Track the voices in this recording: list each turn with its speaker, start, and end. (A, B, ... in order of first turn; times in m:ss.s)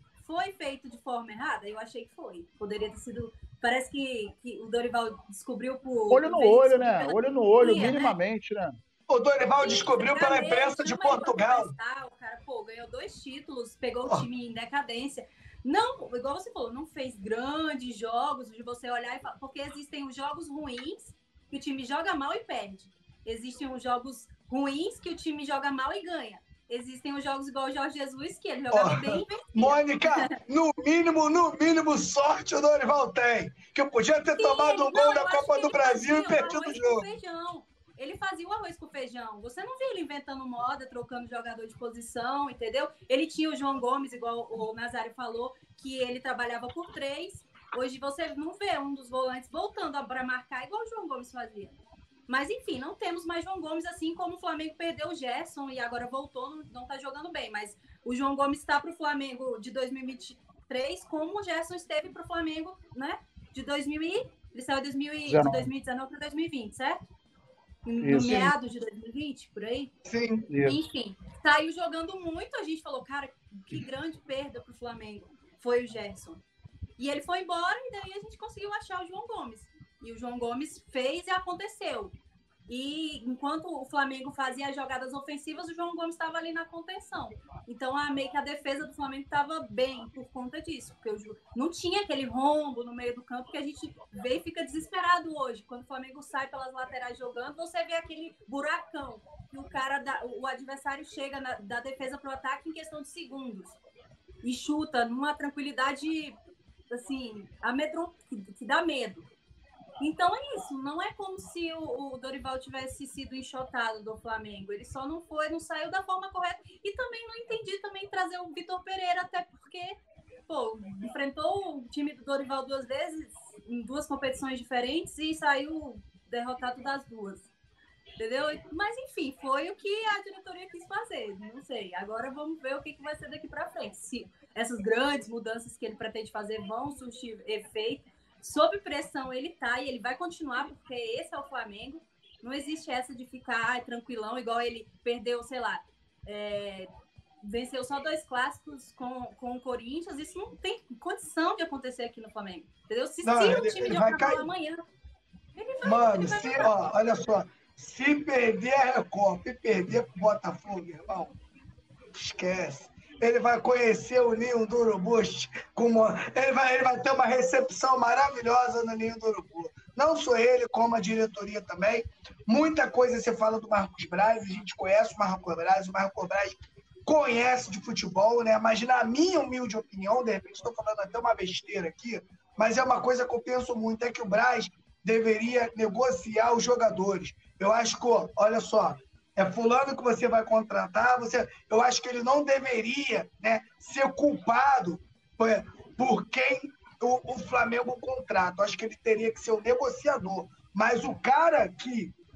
0:00.2-0:08.2 A
0:06.1-0:08.8 B
0:09.1-0:11.7 C
0:09.6-0:30.3 A
0:28.7-0:37.1 C
0:34.4-0:51.8 A
0:52.3-1:07.0 A
1:05.3-1:05.7 B
1:07.8-1:09.9 A
1:08.0-1:08.5 B
1:10.1-1:10.5 C
1:10.5-1:10.8 B
1:10.7-1:16.4 A
1:17.0-1:22.2 A
1:22.7-1:43.8 A
1:44.4-1:46.4 A
1:46.9-1:49.3 A
1:50.0-2:00.0 A
2:00.5-2:07.5 A
2:08.2-2:26.9 A
2:27.4-2:34.8 A
2:33.2-2:34.5 C
2:35.6-2:36.9 A
2:35.8-2:41.4 C
2:42.1-3:22.2 C